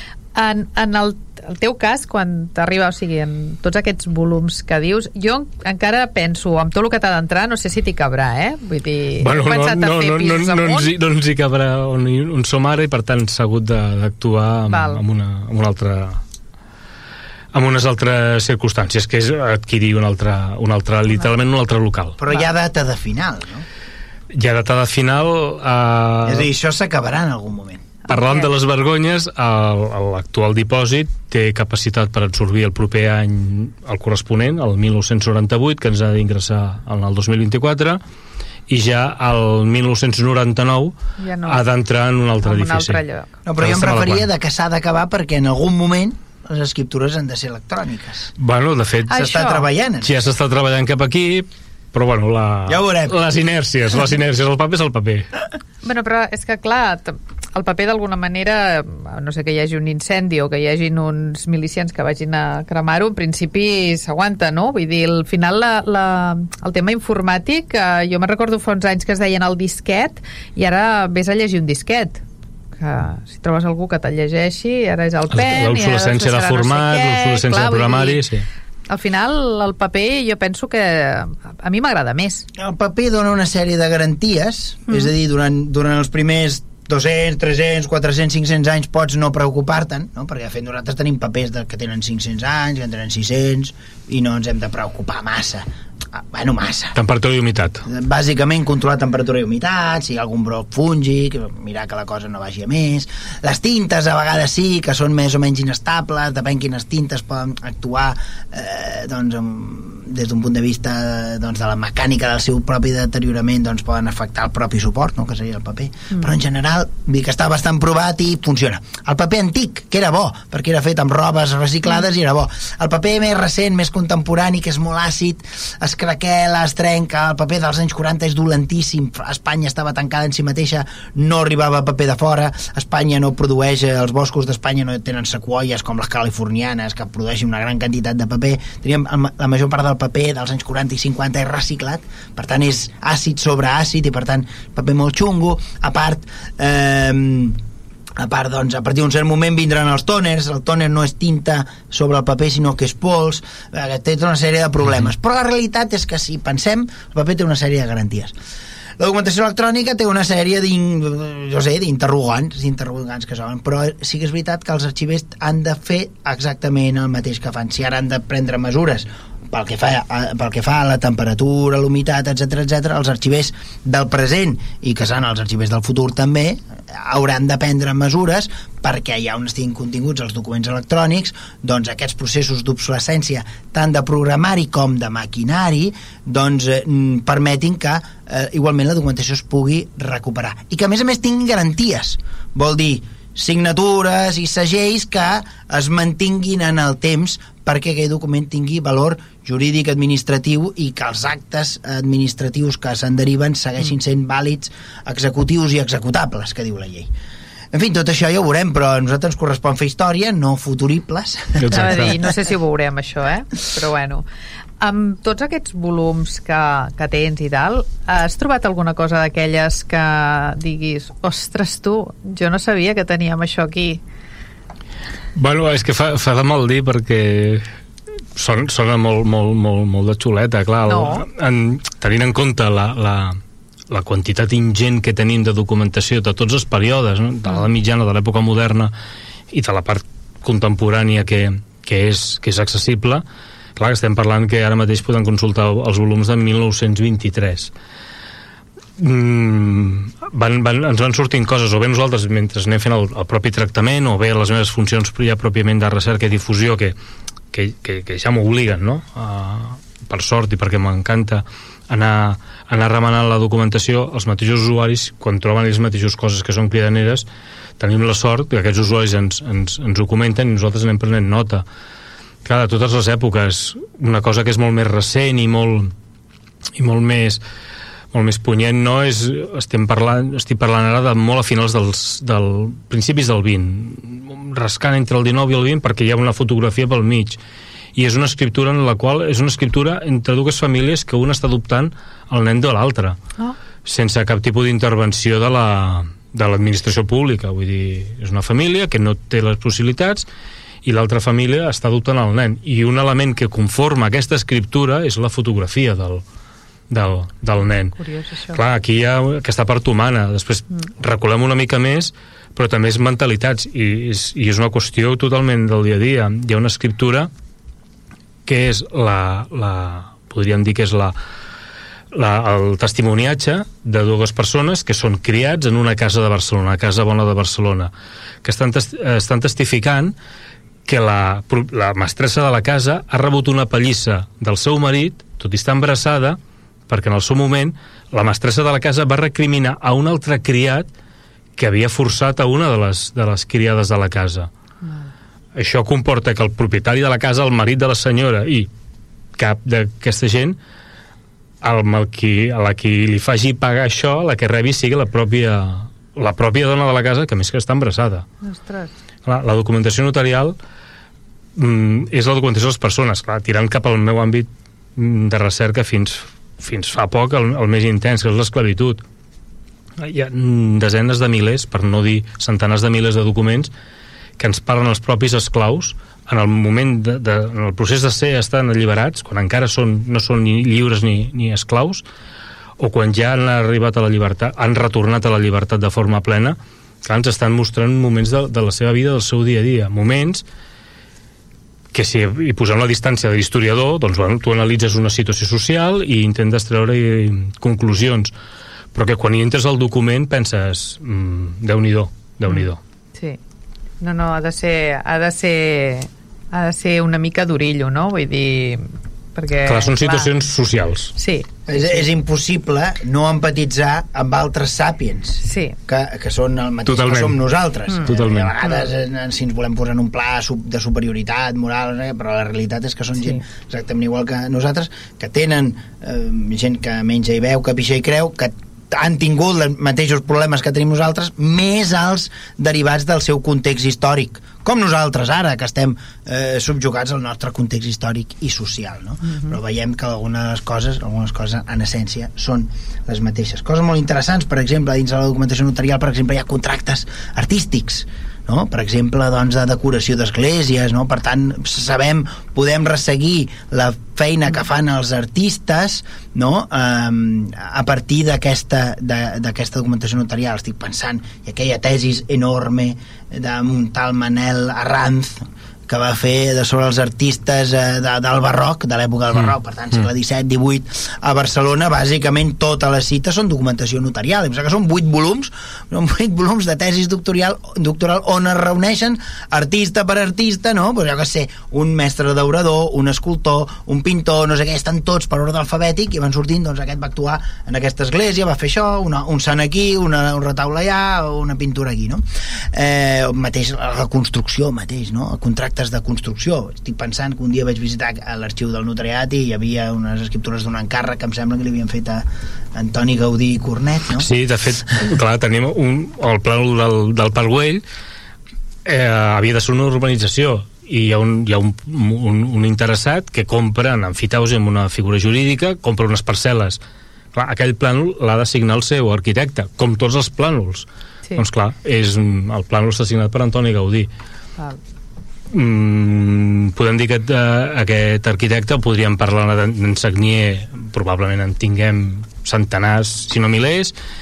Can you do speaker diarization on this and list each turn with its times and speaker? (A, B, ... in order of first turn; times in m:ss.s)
0:00.4-0:10.9 A
0:09.2-0:16.2 B
0:14.7-0:15.0 A
0:17.5-0:22.2 B
0:22.2-0:23.7 C
0:24.3-0:26.5 B
0:26.2-0:27.9 C
0:28.1-0:28.5 A
0:28.1-0:38.0 B
0:38.7-0:41.0 B
0:41.2-0:41.6 A
0:41.5-0:43.0 B
0:42.4-0:43.3 A
0:43.5-0:48.3 C
0:43.6-0:44.3 B
0:48.4-0:49.2 B
0:49.1-0:49.7 A
0:49.1-0:50.2 C
0:50.0-0:55.3 B
0:52.7-0:53.1 C
0:55.8-1:12.2 A
1:12.8-1:18.2 A
1:15.3-1:18.5 B
1:18.9-1:22.5 A
1:22.6-1:37.0 C
1:37.0-1:37.8 B
1:37.8-2:27.6 C
2:28.2-2:38.4 C
2:39.0-3:27.1 C
3:27.7-3:32.1 C
3:31.6-3:32.2 B
3:31.7-3:34.2 A
3:34.8-3:44.0 A
3:45.4-3:47.6 B
3:48.4-3:53.4 B
3:50.9-3:51.3 A
3:53.9-3:58.9 B
3:59.5-4:03.2 B
4:03.8-4:07.7 B
4:09.0-4:17.0 B
4:17.5-4:27.3 B
4:27.8-4:31.6 B
4:32.4-4:35.9 B
4:36.8-4:37.4 B
4:38.1-4:47.4 B
4:48.0-4:53.2 B
4:53.8-5:00.3 B
5:00.8-5:06.2 B
5:06.9-5:08.0 B
5:08.0-5:08.6 A
5:08.5-5:17.3 B
5:18.5-5:21.2 B
5:22.1-5:27.9 B
5:28.4-5:30.2 B
5:30.9-5:40.9 B
5:41.6-5:44.5 B
5:44.8-5:45.1 A
5:45.6-5:48.7 B
5:49.4-5:50.6 B
5:51.6-5:58.3 B
5:58.4-5:58.9 A
5:59.2-6:00.6 B
6:01.6-6:09.0 B
6:10.0-6:13.7 B
6:14.4-6:22.0 B
6:22.8-6:30.4 B
6:31.9-6:38.3 B
6:38.9-6:42.8 B
6:42.5-6:43.4 A
6:44.0-6:50.3 A
6:49.6-6:51.1 B
6:51.2-6:52.1 A
6:51.7-8:24.3 C
6:55.4-6:55.8 A
6:56.9-6:57.4 B
6:58.0-6:58.6 B
8:24.2-8:27.8 B
8:28.8-8:36.8 B
8:37.3-8:44.1 B
8:45.5-8:53.9 B